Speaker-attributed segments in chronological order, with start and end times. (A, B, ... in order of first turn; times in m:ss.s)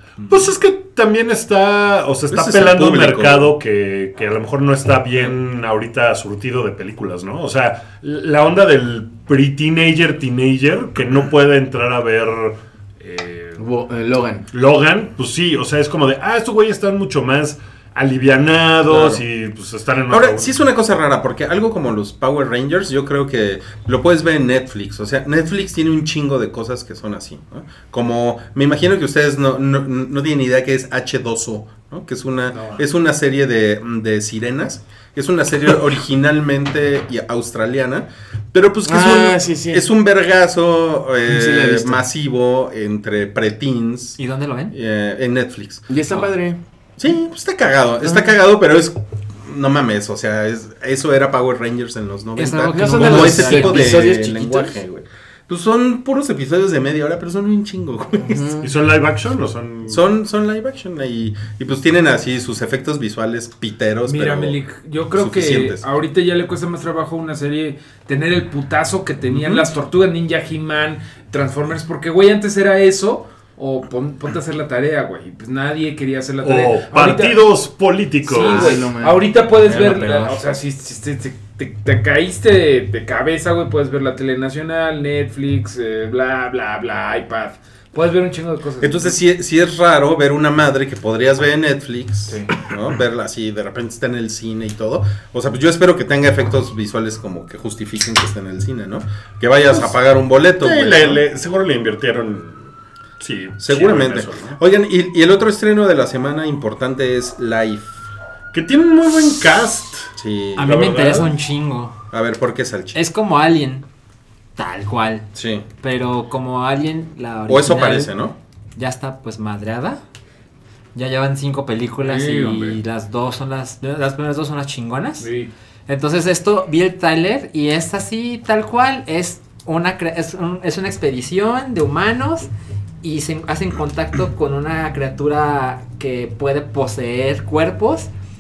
0:00.3-0:13.6 A
0:02.3-0:03.5 B
0:13.6-0:14.5 C
0:14.5-0:20.5 A
0:18.9-0:19.2 B
0:20.1-0:44.2 B
0:32.5-0:32.8 D
0:38.8-0:39.9 C
0:41.2-0:42.0 C
0:44.2-0:44.8 E
0:44.7-0:45.9 B
0:45.9-0:46.6 C
0:47.0-0:58.6 B
0:52.4-0:54.1 E
0:52.7-0:54.8 C
0:58.2-0:58.7 C
0:58.6-1:00.0 A
0:59.9-1:04.6 B
1:04.0-1:17.5 D
1:05.2-1:05.8 B
1:09.4-1:09.7 A
1:16.4-1:18.8 A
1:18.2-1:29.2 D
1:18.3-1:19.3 C
1:19.7-1:20.3 B
1:28.8-1:41.2 B
1:32.3-1:32.5 D
1:40.6-1:42.6 A
1:43.2-1:44.6 A
1:43.6-1:48.0 B
1:48.5-1:51.3 A
1:50.2-1:50.7 B
1:50.6-1:52.0 E
1:52.1-1:53.0 B
1:52.9-1:53.9 E
1:54.6-1:55.3 E
1:55.4-1:55.6 B
1:55.8-1:58.1 E
1:57.5-1:58.4 B
1:58.8-2:00.0 E
2:00.9-2:05.3 E
2:02.0-2:02.8 D
2:05.2-2:05.5 D
2:05.9-2:12.5 E
2:13.0-2:18.1 E